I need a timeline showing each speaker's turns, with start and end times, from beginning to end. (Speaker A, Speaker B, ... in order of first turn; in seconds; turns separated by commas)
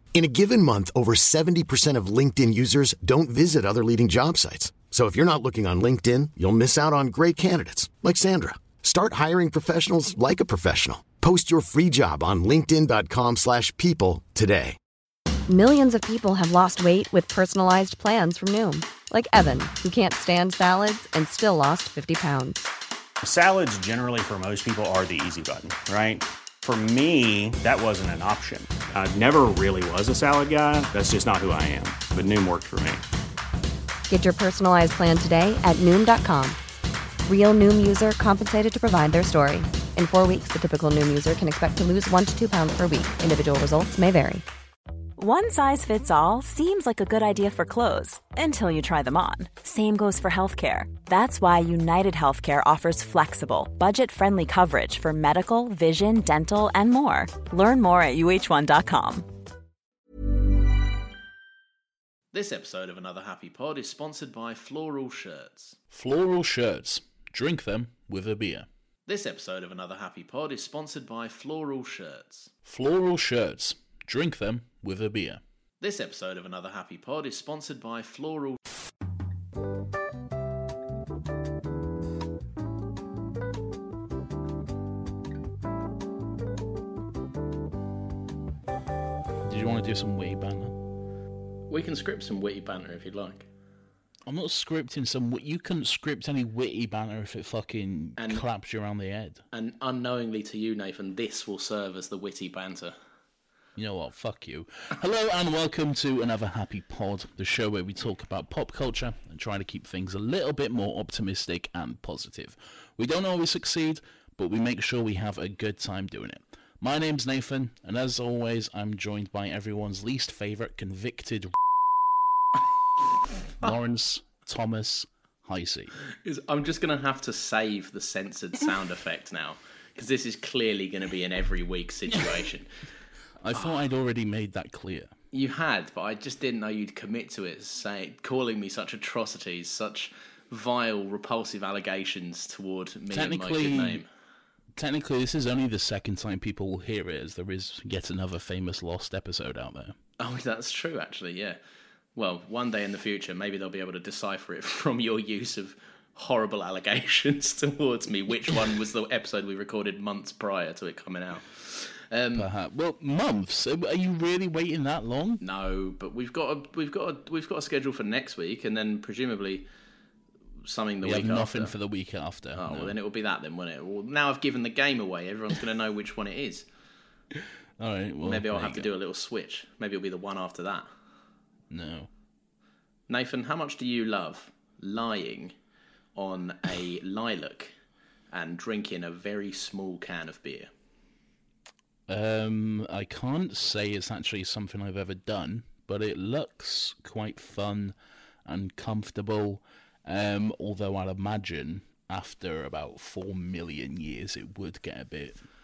Speaker A: 0.1-14.8, Speaker B: 15.5-22.6, Speaker C: 23.2-33.0, Speaker B: 34.1-36.6, Speaker B: 37.3-44.4, Speaker D: 45.2-59.3, Speaker E: 62.3-65.8, Speaker F: 65.9-68.7, Speaker E: 69.1-72.5, Speaker F: 72.7-75.4, Speaker E: 75.8-78.6, Speaker F: 89.5-90.8, Speaker E: 91.7-93.5, Speaker F: 94.3-99.4, Speaker E: 98.2-98.4, Speaker E: 99.5-103.0, Speaker F: 103.8-121.5, Speaker F: 123.6-125.9, Speaker E: 126.2-132.7, Speaker F: 133.4-135.1, Speaker E: 135.3-144.1, Speaker F: 143.1-144.0, Speaker F: 144.8-150.0, Speaker E: 150.2-151.6, Speaker E: 152.2-162.5, Speaker F: 162.4-165.4, Speaker E: 165.4-169.7, Speaker E: 170.7-171.7, Speaker F: 171.0-173.0, Speaker E: 172.6-176.7, Speaker F: 177.8-178.9, Speaker E: 178.2-180.9, Speaker F: 181.7-182.1, Speaker E: 183.1-185.5, Speaker E: 186.2-187.7, Speaker E: 188.3-190.7, Speaker F: 192.1-197.9, Speaker F: 198.5-205.4